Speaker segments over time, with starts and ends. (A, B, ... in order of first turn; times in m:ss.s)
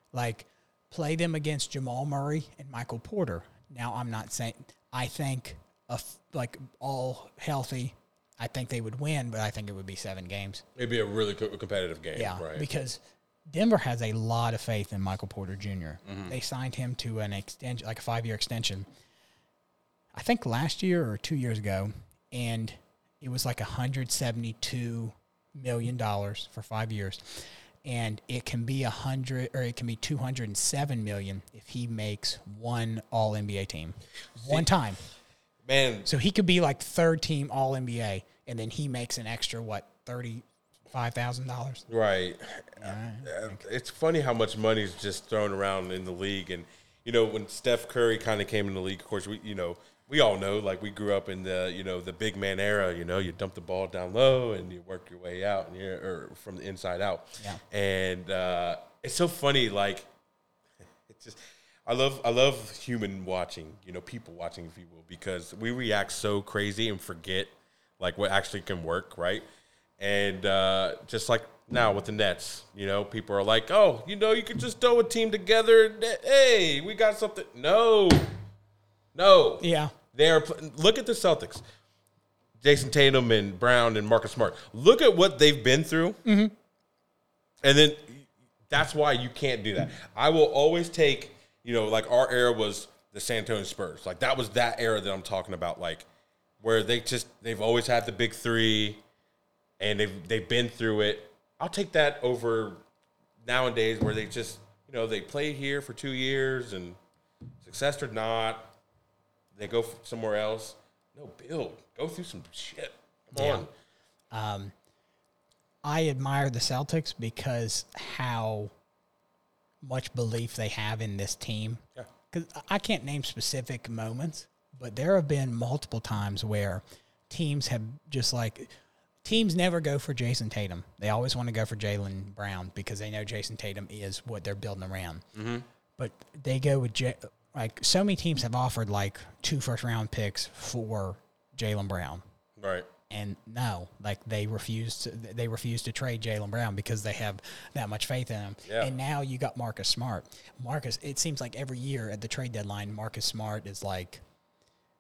0:00.1-0:10.6 A
0:10.8-0:12.7 B
0:12.2-0:18.9 A
0:16.0-0:16.4 B
0:20.1-0:35.0 A
0:34.4-0:34.7 B
0:35.6-0:36.1 B
0:36.0-0:41.9 A
0:41.9-1:00.1 B
0:42.8-0:43.6 A
1:01.0-1:09.4 B
1:10.0-1:18.3 B
1:19.1-1:21.6 B
1:19.6-1:19.9 A
1:22.6-1:26.2 B
1:26.2-1:26.5 A
1:27.6-1:36.1 B
1:36.6-1:39.0 B
1:39.8-1:42.8 B
1:43.4-1:47.0 B
1:47.6-1:48.7 B
1:49.5-1:53.7 B
1:53.3-1:53.7 A
1:54.3-1:54.7 A
1:55.8-1:58.7 A
1:59.8-2:15.2 A
2:15.3-2:15.6 B
2:16.0-2:22.2 A
2:22.6-2:22.9 B
2:23.1-2:34.2 A
2:28.6-2:28.9 B